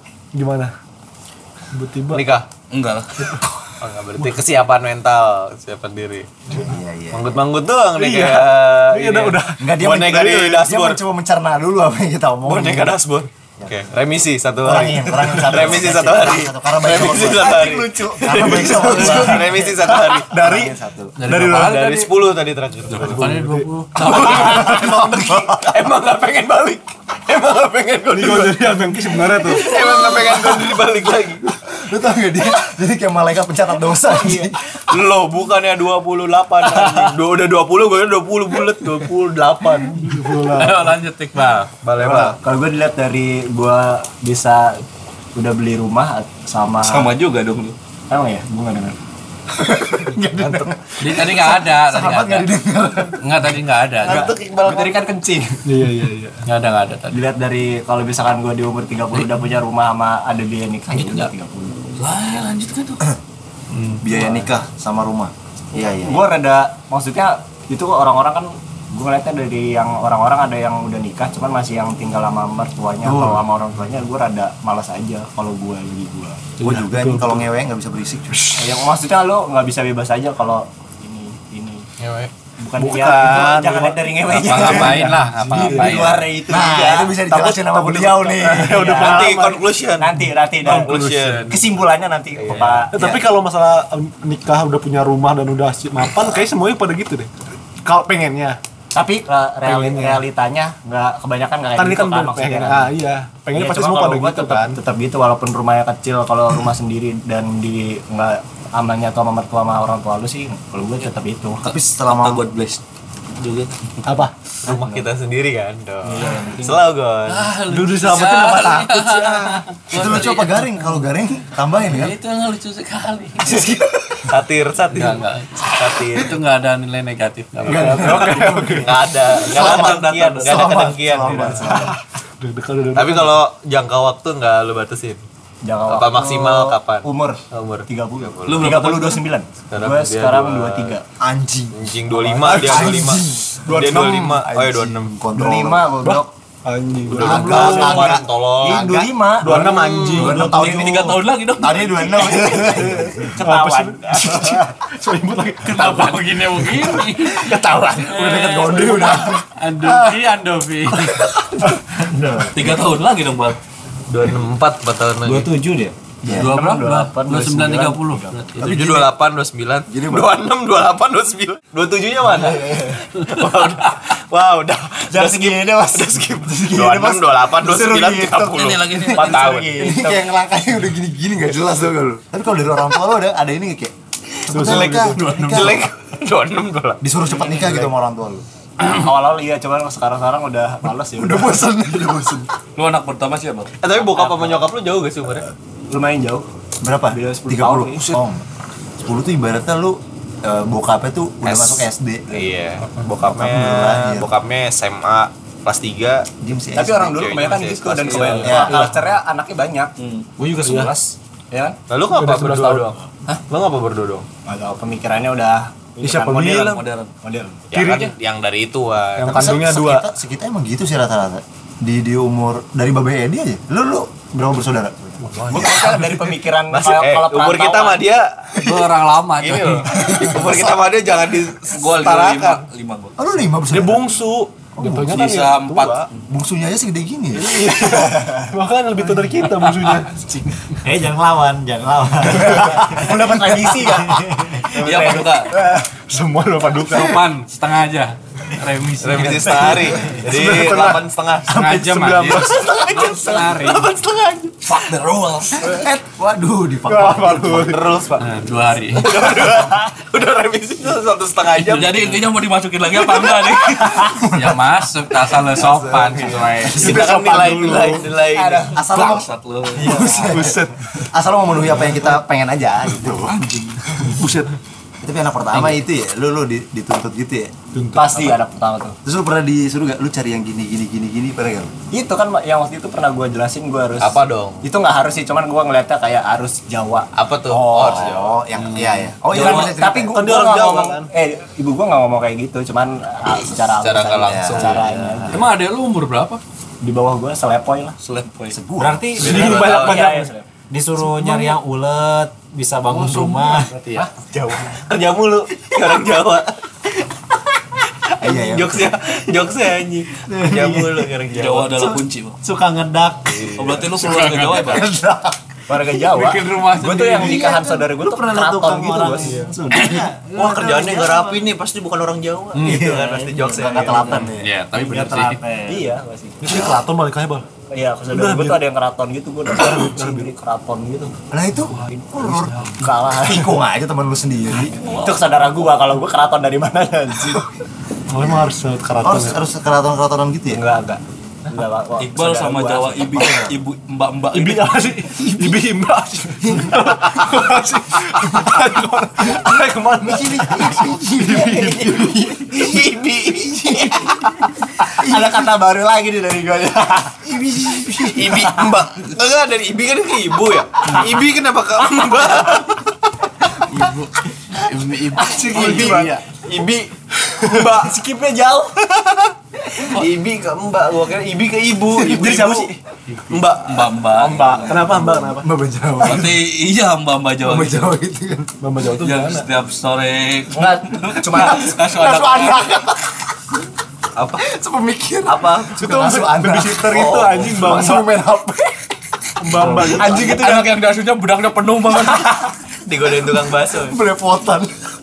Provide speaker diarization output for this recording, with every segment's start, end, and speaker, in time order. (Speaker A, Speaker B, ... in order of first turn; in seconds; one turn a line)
Speaker A: 0.3-0.7
Speaker A: 1.7-2.3
Speaker B: 2.1-2.5
Speaker C: 2.7-3.1
Speaker B: 3.8-6.3
Speaker A: 4.2-4.4
Speaker D: 6.5-7.3
Speaker B: 7.1-11.0
Speaker A: 7.9-9.7
Speaker D: 9.6-13.0
Speaker B: 12.4-20.5
Speaker D: 14.6-21.2
Speaker A: 18.7-19.3
Speaker A: 20.3-20.7
Speaker E: 21.2-22.4
Speaker A: 21.3-21.8
Speaker B: 21.3-23.2
Speaker A: 22.9-23.7
Speaker E: 23.0-24.9
Speaker B: 24.0-31.4
Speaker D: 24.3-25.8
Speaker A: 28.1-29.8
Speaker D: 31.7-34.6
Speaker B: 34.1-40.1
Speaker A: 40.0-41.0
Speaker E: 40.6-41.8
Speaker B: 41.8-42.4
Speaker F: 42.0-44.8
Speaker F: 45.4-47.1
Speaker C: 46.8-47.8
Speaker F: 48.1-49.0
Speaker D: 49.6-53.5
Speaker A: 50.3-50.7
Speaker E: 51.0-52.5
Speaker E: 53.1-54.4
Speaker B: 54.0-55.0
Speaker F: 54.0-55.6
Speaker A: 55.6-56.5
Speaker E: 56.5-57.2
Speaker F: 57.1-61.8
Speaker E: 60.9-61.3
Speaker C: 62.0-63.0
Speaker D: 64.0-66.3
Speaker F: 65.8-76.4
Speaker D: 73.0-73.4
Speaker A: 76.6-77.5
Speaker D: 76.6-78.7
Speaker F: 78.6-81.9
Speaker E: 82.0-82.3
Speaker F: 82.6-87.3
Speaker A: 82.8-86.1
Speaker E: 84.3-86.3
Speaker D: 85.8-88.9
Speaker A: 87.3-89.7
Speaker F: 88.5-89.3
Speaker B: 88.9-91.6
Speaker F: 90.0-90.9
Speaker A: 90.6-91.5
Speaker F: 91.5-93.2
Speaker B: 92.4-92.9
Speaker A: 92.9-98.6
Speaker F: 98.9-102.9
Speaker A: 99.6-100.2
Speaker A: 101.8-104.8
Speaker F: 103.5-111.6
Speaker D: 111.6-112.5
Speaker C: 111.7-112.8
Speaker C: 113.4-113.8
Speaker A: 114.0-114.3
Speaker B: 114.6-117.6
Speaker D: 114.7-115.1
Speaker F: 116.0-116.8
Speaker E: 117.3-121.0
Speaker A: 117.6-119.6
Speaker D: 119.9-122.2
Speaker E: 121.8-123.8
Speaker B: 124.3-126.4
Speaker E: 124.9-128.4
Speaker D: 127.7-132.0
Speaker A: 127.7-129.0
Speaker B: 127.7-131.8
Speaker C: 129.5-130.4
Speaker A: 131.4-133.4
Speaker B: 132.9-135.2
Speaker F: 135.6-137.2
Speaker B: 135.9-138.8
Speaker D: 137.1-137.4
Speaker F: 137.9-141.0
Speaker C: 138.5-139.2
Speaker B: 139.7-141.0
Speaker D: 141.2-141.8
Speaker B: 141.7-145.2
Speaker F: 142.1-142.8
Speaker D: 142.4-146.2
Speaker A: 143.7-144.4
Speaker F: 145.3-146.3
Speaker A: 146.0-148.2
Speaker B: 147.1-149.1
Speaker D: 147.2-153.4
Speaker F: 147.2-149.7
Speaker A: 149.4-150.5
Speaker C: 150.2-153.0
Speaker F: 153.1-154.6
Speaker A: 153.4-158.2
Speaker E: 155.6-161.4
Speaker D: 158.0-159.4
Speaker F: 161.8-162.6
Speaker C: 162.5-163.6
Speaker B: 164.1-165.6
Speaker F: 165.2-168.7
Speaker D: 166.2-166.5
Speaker E: 166.3-169.0
Speaker B: 168.6-179.8
Speaker D: 169.9-170.4
Speaker F: 172.5-172.8
Speaker F: 175.1-178.6
Speaker C: 178.4-179.6
Speaker F: 179.1-180.3
Speaker D: 179.8-183.9
Speaker D: 184.5-185.9
Speaker B: 184.5-187.0
Speaker A: 184.5-185.5
Speaker D: 187.0-188.5
Speaker F: 187.3-187.9
Speaker F: 188.8-191.7
Speaker D: 191.2-192.5
Speaker C: 192.8-193.8
Speaker B: 193.8-195.5
Speaker F: 195.9-196.5
Speaker D: 196.8-198.4
Speaker F: 197.1-198.2
Speaker D: 199.0-202.5
Speaker B: 201.4-206.3
Speaker D: 203.2-204.3
Speaker D: 206.4-207.2
Speaker F: 206.8-211.8
Speaker B: 206.8-208.8
Speaker C: 208.1-208.4
Speaker A: 208.2-208.9
Speaker D: 208.4-208.8
Speaker C: 210.0-210.3
Speaker A: 210.6-210.9
Speaker B: 211.9-214.3
Speaker A: 212.1-212.9
Speaker F: 214.5-217.6
Speaker A: 216.0-216.8
Speaker C: 216.6-217.1
Speaker B: 217.7-219.6
Speaker A: 217.7-218.2
Speaker A: 219.2-220.1
Speaker D: 219.3-225.8
Speaker A: 225.2-226.1
Speaker F: 225.5-228.1
Speaker B: 226.7-232.7
Speaker E: 228.6-230.0
Speaker D: 230.0-230.7
Speaker C: 231.7-233.2
Speaker D: 233.2-235.3
Speaker A: 233.7-236.1
Speaker C: 235.1-236.2
Speaker D: 236.3-238.4
Speaker A: 237.3-240.5
Speaker G: 240.8-243.2
Speaker F: 242.4-245.5
Speaker C: 244.7-245.5
Speaker A: 245.6-247.3
Speaker E: 246.9-249.8
Speaker B: 249.0-251.7
Speaker A: 249.7-252.7
Speaker E: 251.5-253.9
Speaker B: 252.3-254.9
Speaker C: 254.7-255.7
Speaker D: 255.6-257.8
Speaker A: 256.9-257.9
Speaker B: 257.6-258.3
Speaker E: 258.2-259.3
Speaker B: 258.9-262.2
Speaker C: 261.6-264.2
Speaker B: 263.4-263.8
Speaker E: 264.1-267.0
Speaker D: 265.7-266.2
Speaker B: 266.6-268.7
Speaker A: 266.8-268.1
Speaker F: 267.0-267.4
Speaker F: 268.1-268.8
Speaker D: 268.7-273.4
Speaker C: 268.8-269.9
Speaker F: 269.8-270.3
Speaker A: 269.9-271.1
Speaker C: 273.2-273.9
Speaker A: 274.0-274.5
Speaker D: 275.0-277.5
Speaker A: 277.7-278.4
Speaker F: 277.9-279.0
Speaker D: 279.1-281.7
Speaker F: 281.9-287.1
Speaker B: 284.0-284.7
Speaker B: 287.1-288.5
Speaker D: 287.5-290.3
Speaker F: 289.3-295.5
Speaker C: 289.3-289.7
Speaker A: 289.4-291.1
Speaker B: 293.4-295.2
Speaker D: 294.2-295.1
Speaker E: 295.3-296.4
Speaker F: 296.8-298.0
Speaker C: 298.0-298.6
Speaker D: 298.5-299.2
Speaker G: 298.8-299.4
Speaker B: 299.2-300.2
Speaker A: 299.2-300.3
Speaker F: 299.2-300.5
Speaker G: 300.7-304.8
Speaker A: 301.0-301.5
Speaker E: 302.9-304.1
Speaker B: 304.8-306.5
Speaker D: 308.2-309.0
Speaker B: 308.2-312.0
Speaker G: 310.3-311.1
Speaker C: 311.3-312.4
Speaker G: 312.4-313.5
Speaker B: 313.3-313.9
Speaker C: 313.5-314.9
Speaker E: 314.0-314.9
Speaker D: 314.7-315.2
Speaker F: 315.7-319.5
Speaker E: 316.0-317.6
Speaker G: 317.5-321.4
Speaker E: 319.7-320.1
Speaker B: 319.9-324.3
Speaker F: 322.6-324.3
Speaker D: 323.4-324.5
Speaker E: 324.3-325.4
Speaker G: 324.7-325.9
Speaker F: 325.7-326.6
Speaker A: 326.4-327.5
Speaker F: 327.7-331.1
Speaker A: 328.1-328.6
Speaker A: 329.6-330.3
Speaker D: 331.3-334.8
Speaker F: 332.8-333.6
Speaker F: 334.9-337.4
Speaker A: 338.1-339.4
Speaker D: 339.0-340.6
Speaker F: 340.5-343.5
Speaker C: 342.0-345.0
Speaker A: 344.3-352.5
Speaker D: 346.4-346.8
Speaker D: 350.0-352.1
Speaker B: 352.4-354.1
Speaker F: 354.8-357.2
Speaker D: 355.0-355.4
Speaker B: 357.3-362.8
Speaker E: 363.7-366.0
Speaker F: 365.2-366.1
Speaker A: 365.3-366.2
Speaker B: 365.4-366.9
Speaker B: 367.4-368.3
Speaker B: 369.8-372.7
Speaker A: 372.0-372.7
Speaker E: 373.1-373.4
Speaker B: 373.3-374.4
Speaker C: 373.6-374.9
Speaker A: 374.2-375.5
Speaker D: 375.1-376.4
Speaker C: 376.0-377.9
Speaker D: 377.4-378.5
Speaker A: 378.6-379.5
Speaker C: 379.0-382.8
Speaker F: 380.5-382.5
Speaker D: 382.4-382.8
Speaker B: 384.2-384.4
Speaker D: 384.4-388.7
Speaker B: 385.3-385.9
Speaker A: 385.8-388.2
Speaker B: 386.8-387.8
Speaker A: 389.4-390.4
Speaker C: 389.6-392.5
Speaker F: 389.9-390.7
Speaker B: 392.9-394.0
Speaker D: 393.7-394.7